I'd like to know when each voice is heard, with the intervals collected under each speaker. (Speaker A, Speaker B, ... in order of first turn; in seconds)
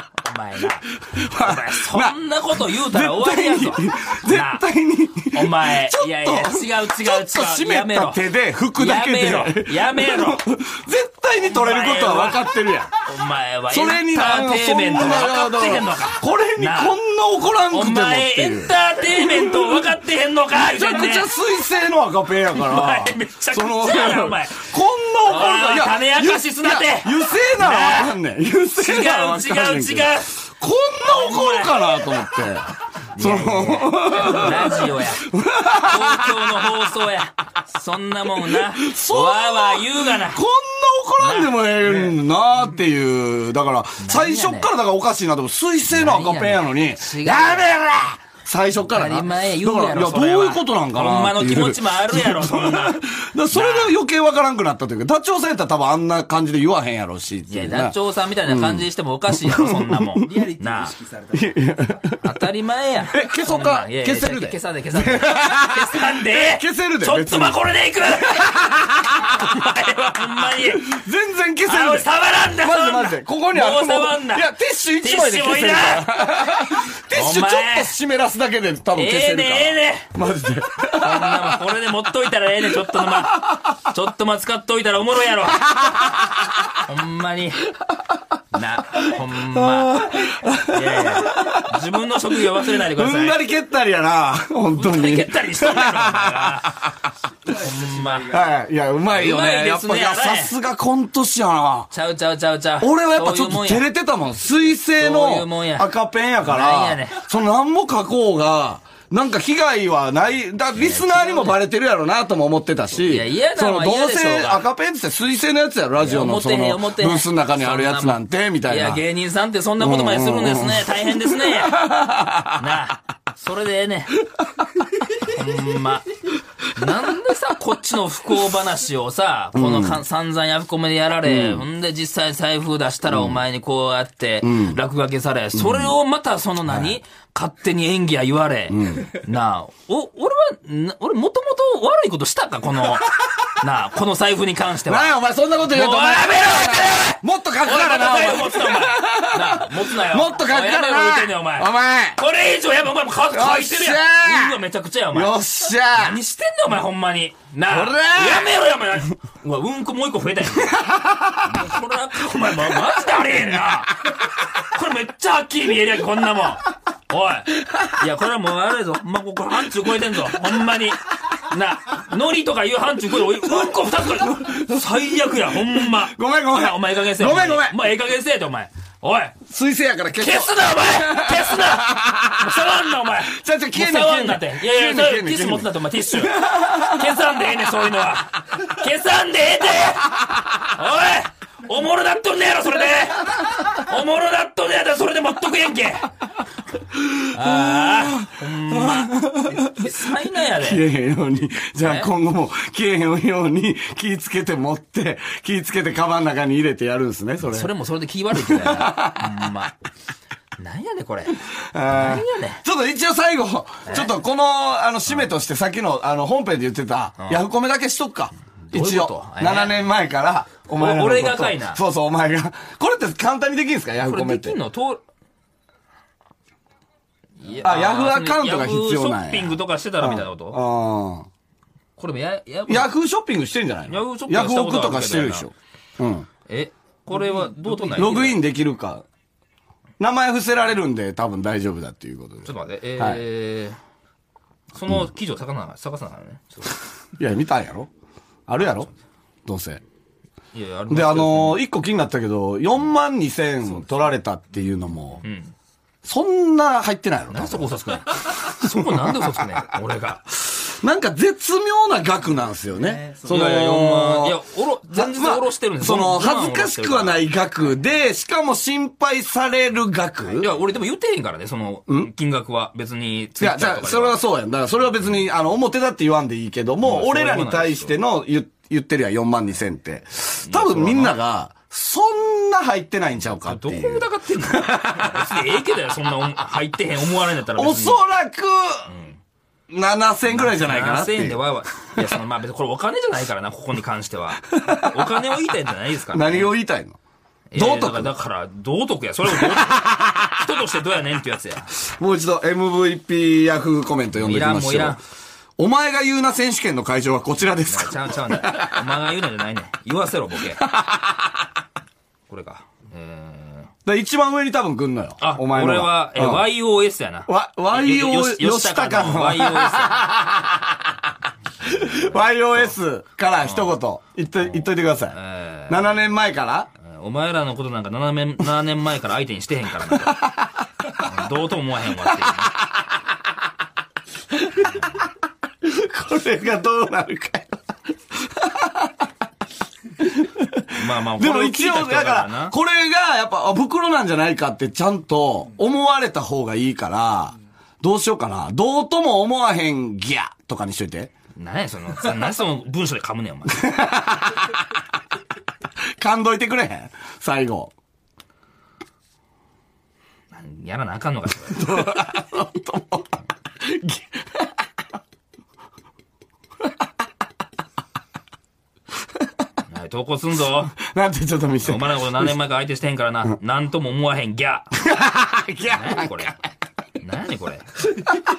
Speaker A: 0.2-4.6, 5.3-10.4, 11.4-12.5, 13.0-17.0, 17.7-21.3, 22.5-24.7, 25.2-28.2, 28.8-30.4, 31.0-32.3, 33.1-40.4, 41.2-42.1, 44.0-44.7, 45.9-47.7, 48.9-53.0, 53.5-54.0, 57.5-61.0, 62.2-68.6, 69.2-70.9, 71.7-74.5, 75.0-76.1, 77.1-78.0, 78.9-80.1, 80.9-85.7, 86.8-87.7, 88.5-93.4, 94.7-96.8, 97.5-98.4, 99.1-100.6, 101.9-103.8, 105.0-105.9, 106.4-107.2, 110.8-111.6, 113.0-114.6, 116.0-121.9, 122.6-124.2, 125.2-126.1, 126.7-155.3, 155.9-160.8, 161.4-179.4, 180.2-196.1, 197.3-200.8, 201.8-202.1, 207.5-209.7, 210.6-212.6, 213.9-214.1, 218.7-219.9, 220.7-221.8, 224.0-225.0, 227.4-230.6, 232.0-232.9, 233.9-235.5, 236.5-238.4, 242.4-243.8, 244.7-246.8, 250.5-251.6, 255.2-255.5, 257.3-260.3, 263.2-267.3, 270.4-274.2, 276.8-278.0, 280.4-281.2, 283.4-288.0, 288.9-289.2, 290.3-296.5, 297.5-301.7, 304.2-305.0, 307.6-310.7, 312.3-313.7, 315.2-320.1, 321.6-322.7, 323.4-323.7, 324.4-326.0, 326.8-330.2, 331.0-332.6, 340.7-342.6, 351.4-353.7, 360.3-361.9, 369.7-370.8, 371.6-374.7, 375.7-376.4, 377.0-377.7
Speaker B: 1.0-12.9, 13.7-19.9, 20.5-36.7, 38.4-60.5, 61.2-62.2, 63.1-81.6, 82.8-83.6, 85.6-86.7, 89.2-91.8, 92.6-97.0, 98.2-101.9, 102.8-119.0, 119.8-122.6, 129.5-130.0, 131.2-131.7, 133.1-133.4, 134.4-134.8, 135.5-135.9, 136.7-136.9, 138.7-139.1, 144.8-152.2, 153.3-154.6, 155.1-156.2, 157.7-158.5, 160.6-161.4, 167.6-167.9, 174.0-177.9, 179.5-182.7, 183.2-187.3, 196.9-207.7, 208.3-209.6, 211.6-224.6, 227.6-231.3, 232.7-236.3, 237.9-239.1, 240.0-243.2, 247.2-247.9, 248.5-248.9, 249.4-249.8, 250.9-255.2, 256.0-257.7, 258.7-259.4, 260.4-264.4, 264.9-270.5, 273.4-285.3, 287.5-288.9, 289.7-291.4, 294.5-295.0, 296.1-297.0, 297.6-298.1, 299.3-300.4, 301.8-305.0, 305.6-308.8, 310.6-311.3, 313.9-316.5, 317.3-321.0, 321.6-325.2, 325.7-326.7, 329.9-330.6, 332.0-333.0, 334.3-335.1, 335.6-339.1, 340.0-351.1, 353.5-354.7, 356.0-357.7, 361.5-364.5, 370.7-372.4, 374.7-376.4